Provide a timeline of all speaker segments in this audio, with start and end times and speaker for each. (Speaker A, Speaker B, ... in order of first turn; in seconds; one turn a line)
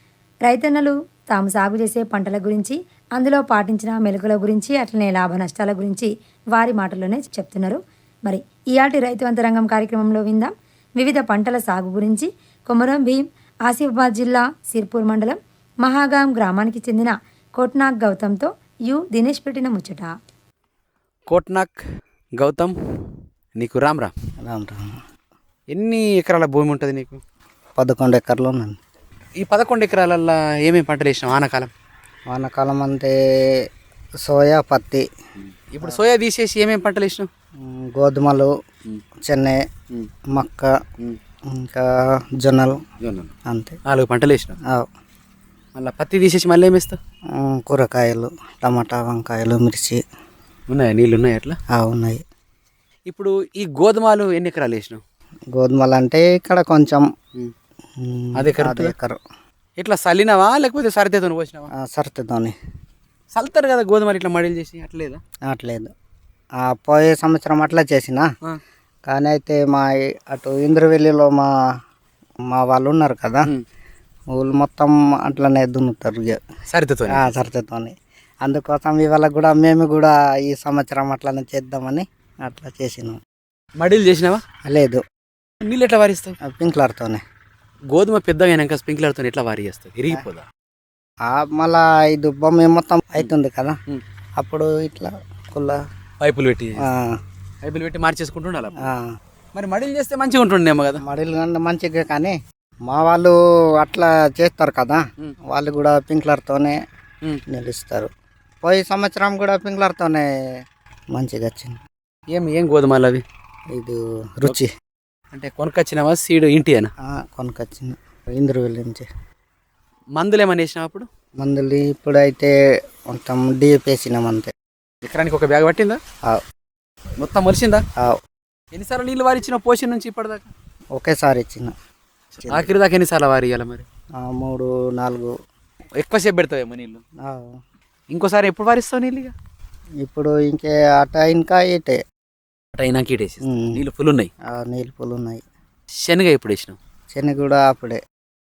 Speaker A: 0.5-20.1
Speaker B: 21.3-21.8
Speaker B: 22.4-22.8
Speaker B: 23.6-24.1
Speaker C: 24.4-25.0
Speaker B: 25.7-27.2
Speaker C: 27.8-28.8
Speaker B: 29.4-31.7
Speaker C: 32.3-33.1
Speaker C: 34.2-35.1
Speaker B: 35.4-37.3
Speaker C: 37.6-38.5
Speaker C: 39.3-39.6
Speaker C: 40.3-40.8
Speaker C: 41.5-41.9
Speaker C: 42.4-42.8
Speaker B: 43.0-43.3
Speaker C: 43.5-43.8
Speaker B: 43.9-44.6
Speaker B: 45.8-47.0
Speaker C: 47.4-50.0
Speaker B: 50.7-51.6
Speaker C: 51.7-52.2
Speaker B: 53.1-55.0
Speaker C: 55.5-57.1
Speaker C: 58.0-59.2
Speaker B: 58.4-58.9
Speaker B: 59.8-61.7
Speaker C: 61.8-62.5
Speaker B: 63.3-65.2
Speaker C: 65.5-65.9
Speaker C: 66.6-68.3
Speaker C: 69.1-71.5
Speaker C: 72.5-73.5
Speaker C: 74.3-76.4
Speaker B: 76.7-77.3
Speaker C: 77.1-83.2
Speaker B: 83.8-84.4
Speaker C: 84.7-85.0
Speaker B: 85.6-86.4
Speaker C: 86.4-87.2
Speaker B: 87.9-90.5
Speaker C: 91.2-93.8
Speaker C: 94.4-95.8
Speaker B: 96.2-96.9
Speaker C: 96.8-97.2
Speaker B: 97.6-98.9
Speaker C: 98.8-99.1
Speaker B: 99.5-101.0
Speaker C: 101.0-106.8
Speaker C: 107.5-108.1
Speaker C: 108.6-110.3
Speaker C: 111.1-111.8
Speaker B: 112.3-113.2
Speaker C: 113.7-114.7
Speaker B: 115.3-116.9
Speaker C: 117.1-119.1
Speaker B: 120.2-121.1
Speaker C: 121.4-122.5
Speaker C: 123.1-124.5
Speaker B: 125.0-126.0
Speaker B: 127.2-127.8
Speaker B: 128.7-130.5
Speaker C: 131.0-131.7
Speaker B: 132.3-133.8
Speaker C: 134.2-135.3
Speaker B: 136.0-137.0
Speaker C: 137.2-137.6
Speaker B: 138.1-139.3
Speaker C: 140.0-142.0
Speaker B: 142.8-144.3
Speaker C: 143.4-143.8
Speaker C: 144.5-145.4
Speaker B: 146.0-146.8
Speaker C: 147.1-148.0